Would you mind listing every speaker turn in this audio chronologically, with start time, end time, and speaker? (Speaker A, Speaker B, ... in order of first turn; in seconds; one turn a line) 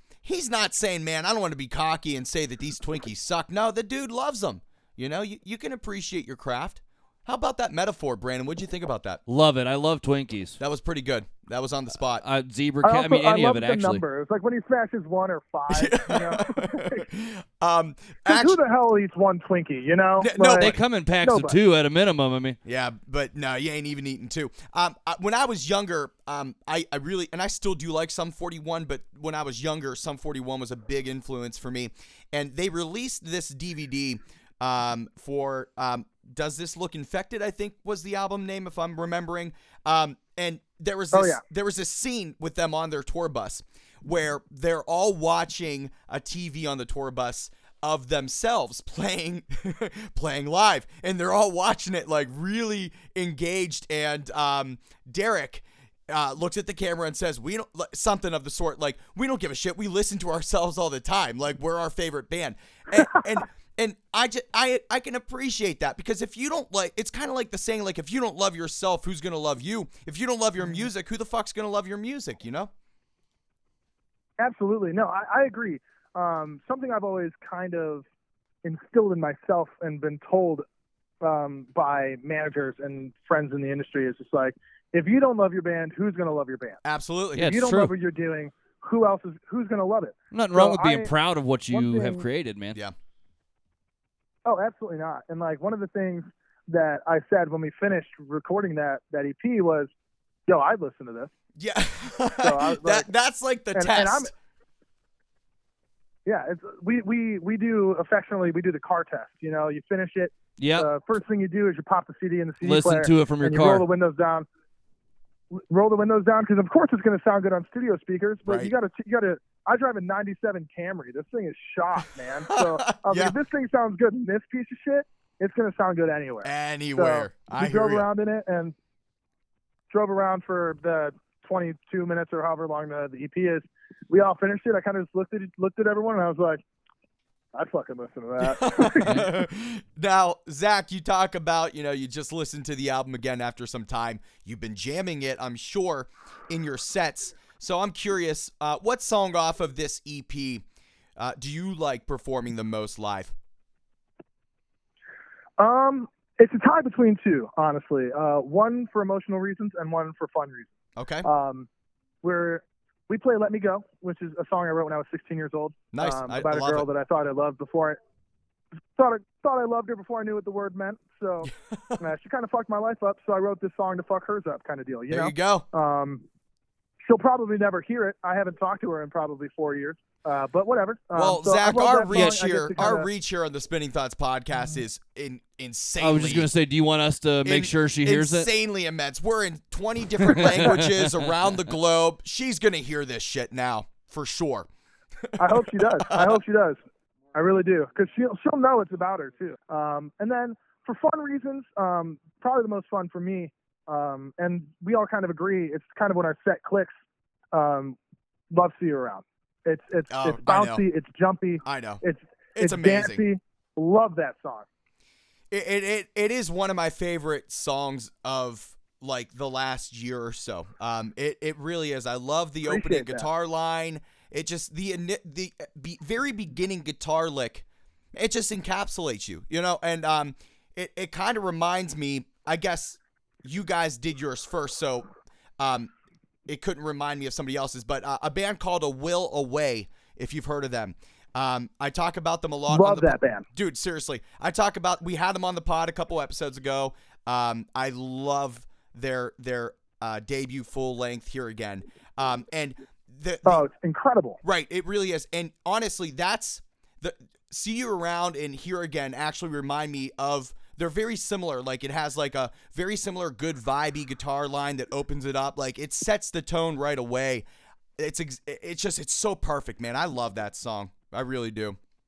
Speaker A: 0.2-9.2
Speaker B: 9.3-10.6
Speaker A: 10.6-12.2
Speaker B: 12.2-14.0
Speaker C: 12.8-17.1
Speaker A: 15.7-18.6
Speaker C: 18.2-21.6
Speaker A: 20.2-20.8
Speaker B: 20.6-22.6
Speaker A: 22.6-72.7
Speaker C: 41.1-41.4
Speaker C: 74.4-78.0
Speaker C: 78.6-80.7
Speaker C: 81.2-86.8
Speaker A: 86.8-87.5
Speaker B: 87.4-87.9
Speaker C: 87.4-91.1
Speaker B: 90.3-92.8
Speaker C: 91.7-92.2
Speaker C: 94.5-99.9
Speaker C: 100.5-101.3
Speaker A: 101.6-104.3
Speaker C: 102.4-103.1
Speaker C: 103.7-104.3
Speaker C: 106.2-114.5
Speaker B: 110.6-110.9
Speaker B: 112.6-113.8
Speaker C: 115.5-128.7
Speaker A: 118.5-118.7
Speaker A: 122.5-123.3
Speaker A: 126.4-128.1
Speaker C: 129.9-136.6
Speaker C: 137.5-139.2
Speaker A: 138.4-150.6
Speaker A: 151.2-153.3
Speaker C: 155.6-160.7
Speaker A: 160.9-161.3
Speaker C: 161.2-161.7
Speaker C: 162.2-168.0
Speaker A: 165.9-166.8
Speaker C: 168.9-176.2
Speaker A: 175.1-175.7
Speaker C: 177.0-183.1
Speaker A: 181.1-186.5
Speaker B: 186.0-188.5
Speaker A: 187.4-194.7
Speaker B: 190.3-191.3
Speaker A: 195.2-196.4
Speaker C: 195.4-196.8
Speaker C: 197.3-206.9
Speaker C: 207.5-208.0
Speaker C: 208.5-214.7
Speaker A: 210.1-210.8
Speaker A: 211.6-212.0
Speaker A: 212.6-213.2
Speaker A: 215.5-235.1
Speaker C: 222.6-223.3
Speaker A: 235.6-235.9
Speaker A: 236.5-253.6
Speaker C: 242.7-243.4
Speaker C: 253.4-254.4
Speaker A: 254.4-267.4
Speaker A: 268.0-271.8